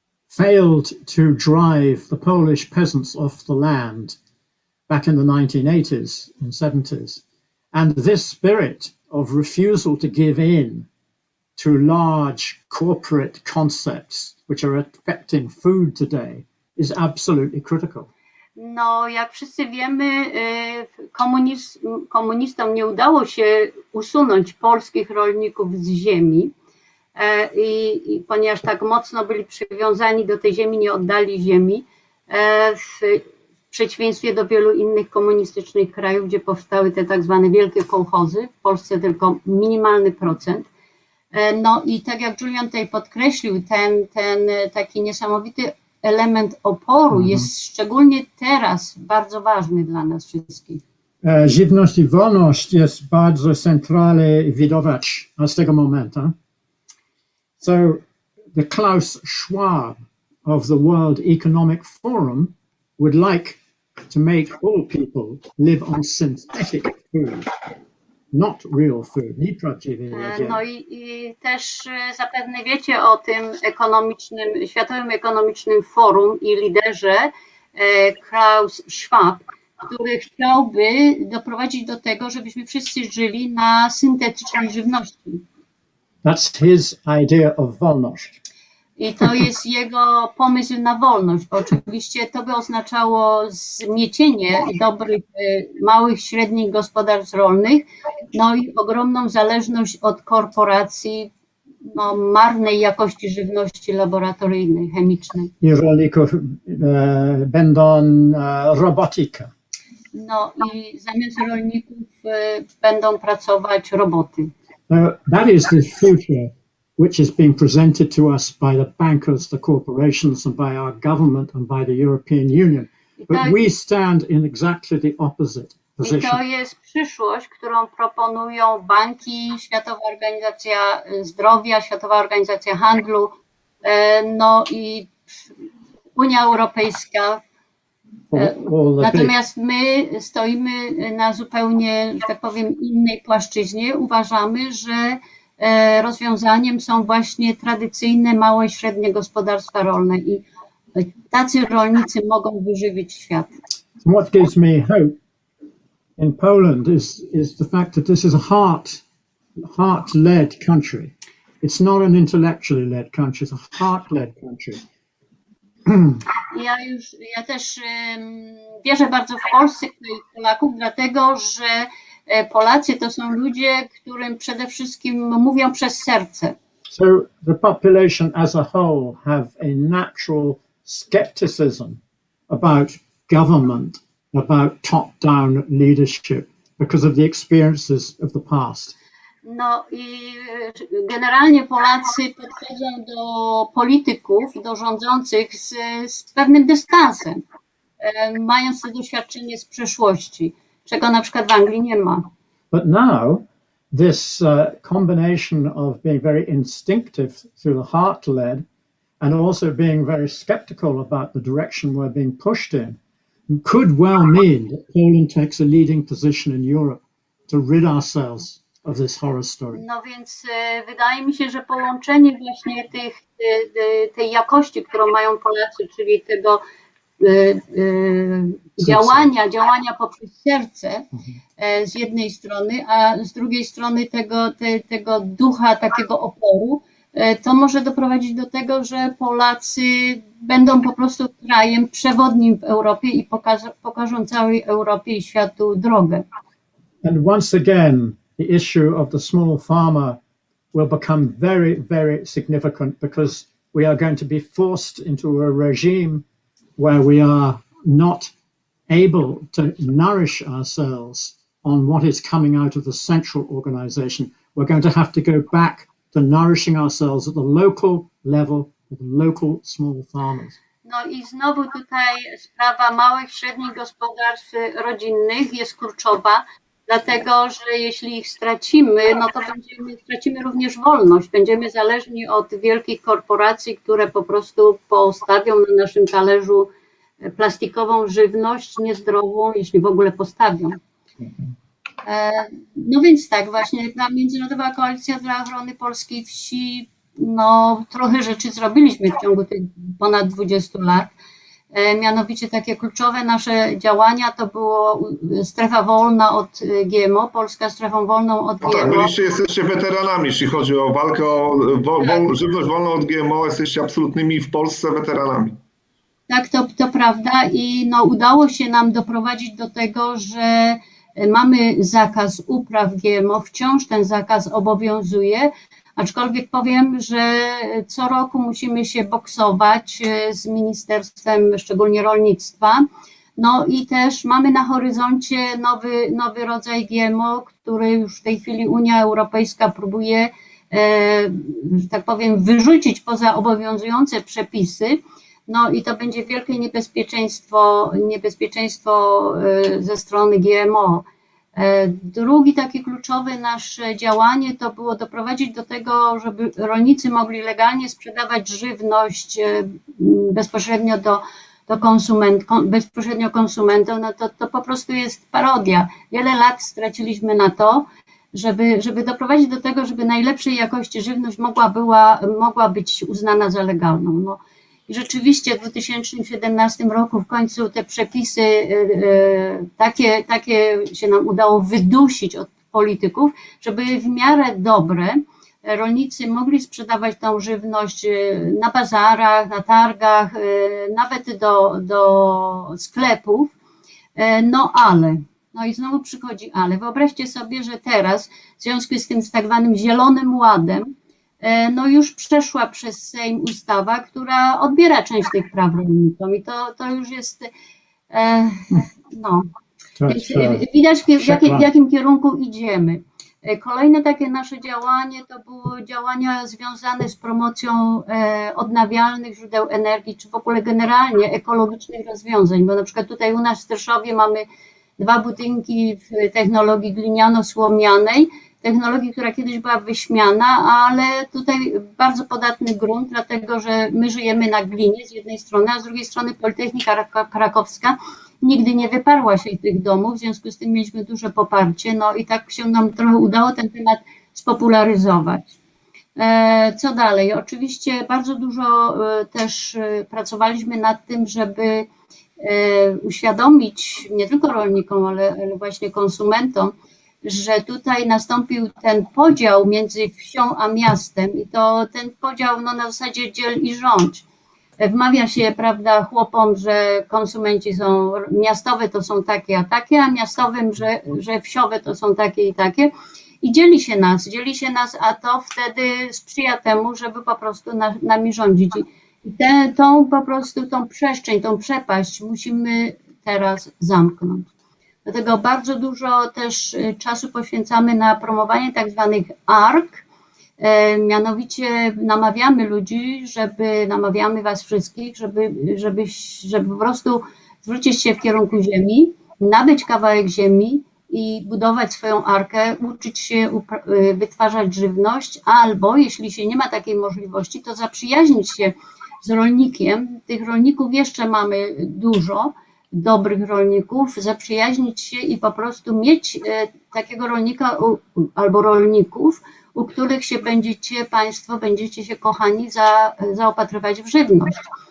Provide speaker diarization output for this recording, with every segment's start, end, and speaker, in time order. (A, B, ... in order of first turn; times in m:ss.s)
0:00.3-0:04.2 A
0:04.9-0:07.2 A
0:07.7-0:10.9 A
0:11.6-0:18.1 A
0:18.6-0:26.5 B
0:27.2-0:40.7 B
0:41.3-0:50.8 B
0:47.2-0:47.5 A
0:51.2-0:56.3 A
0:57.6-0:58.0 A
0:58.5-1:03.6 A
1:04.1-1:07.5 A
1:08.3-1:10.6 A
1:10.1-1:25.4 B
1:26.2-1:28.4 A
1:29.0-1:41.3 B
1:41.9-1:45.5 B
1:45.6-1:49.5 A
1:50.1-1:54.5 B
1:54.9-2:06.4 A
2:03.2-2:03.6 B
2:06.0-2:15.1 B
2:16.2-2:17.4 B
2:18.3-2:19.3 A
2:18.4-2:33.5 B
2:34.0-2:35.2 A
2:36.2-2:39.0 A
2:39.6-2:44.8 A
2:45.9-2:46.2 A
2:46.5-2:56.6 B
2:56.9-3:09.0 A
3:09.4-3:17.4 B
3:18.0-3:22.3 B
3:22.7-3:28.6 A
3:29.2-3:33.0 A
3:33.5-3:39.8 A
3:39.7-3:46.6 B
3:47.2-3:51.1 B
3:48.8-3:49.3 A
3:51.1-3:51.4 A
3:51.6-4:06.2 B
4:07.0-4:10.2 A
4:10.7-4:16.2 A
4:16.8-4:18.3 A
4:18.9-4:30.6 A
4:30.8-4:46.7 B
4:47.2-4:50.8 B
4:52.0-5:01.1 B
5:01.7-5:09.1 B
5:08.6-5:15.6 C
5:16.3-5:32.9 B
5:33.4-6:33.5 B
6:34.2-6:47.5 B
6:48.1-6:49.5 B
6:50.0-6:50.6 A
6:50.1-7:04.5 B
6:51.2-6:51.7 A
7:05.0-7:25.5 B
7:26.2-7:31.9 B
7:32.4-7:44.2 B
7:44.8-7:52.9 B
7:53.4-8:04.5 B
8:05.0-8:10.0 B
8:10.6-8:44.7 B